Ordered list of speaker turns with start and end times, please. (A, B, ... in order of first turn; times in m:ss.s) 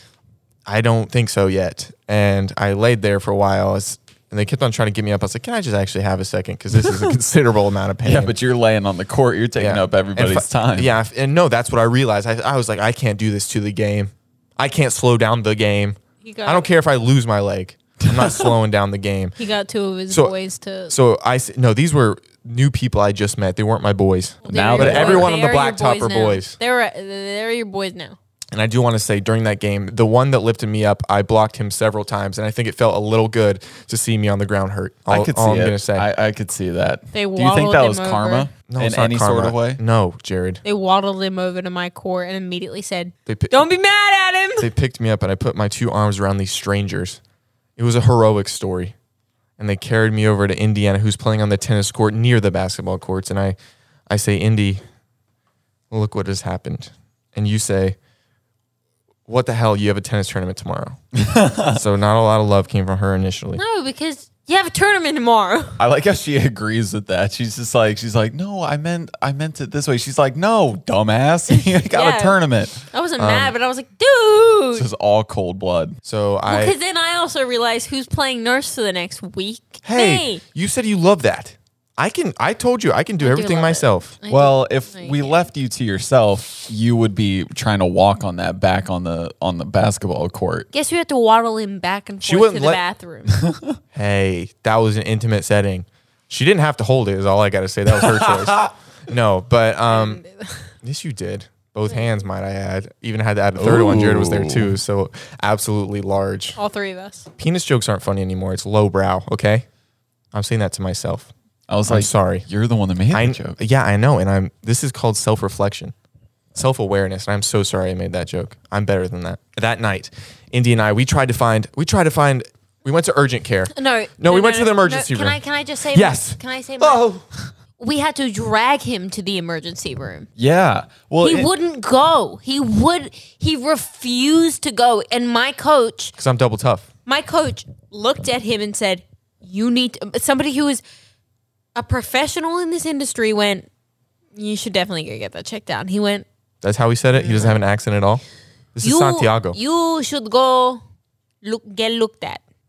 0:00.6-0:08.3 A
0:06.8-0:07.1 B
0:08.0-0:10.9 B
0:09.6-0:19.4 A
0:16.2-0:16.7 C
0:18.0-0:18.5 B
0:19.4-0:21.0 C
0:20.9-0:26.6 A
0:24.4-0:28.2 C
0:24.5-0:25.3 B
0:28.5-0:36.1 A
0:35.1-0:39.8 B
0:37.1-0:38.5 C
0:38.7-0:40.6 A
0:40.6-0:44.7 C
0:43.3-0:43.6 A
0:44.6-0:47.2 A
0:47.8-0:48.9 A
0:49.6-0:53.6 A
0:54.1-0:54.8 A
0:55.9-0:58.0 A
0:59.3-1:01.0 A
1:01.1-1:01.8 B
1:01.7-1:03.6 A
1:03.5-1:05.8 C
1:05.8-1:12.8 B
1:11.5-1:12.4 C
1:12.9-1:14.9 C
1:13.2-1:13.5 A
1:14.7-1:16.0 B
1:16.0-1:16.8 A
1:16.5-1:20.4 C
1:19.8-1:24.2 A
1:23.2-1:25.5 C
1:24.3-1:30.7 B
1:30.7-1:33.4 C
1:32.2-1:32.8 A
1:33.3-1:33.8 B
1:33.9-1:40.2 A
1:38.0-1:38.7 B
1:39.9-1:40.7 C
1:40.8-1:46.6 A
1:43.6-1:44.7 B
1:46.6-1:47.3 C
1:47.4-1:49.6 A
1:50.3-1:51.3 A
1:51.7-1:53.6 B
1:51.9-1:52.4 A
1:53.1-1:55.9 A
1:56.5-2:07.2 A
2:03.7-2:07.0 C
2:07.8-2:10.3 C
2:10.4-2:11.5 B
2:11.2-2:16.1 C
2:16.2-2:16.9 A
2:17.0-2:20.8 C
2:21.7-2:23.7 C
2:24.3-2:26.2 C
2:26.6-2:28.2 A
2:27.1-2:27.6 C
2:28.7-2:29.6 A
2:28.8-2:30.8 C
2:31.4-2:32.4 C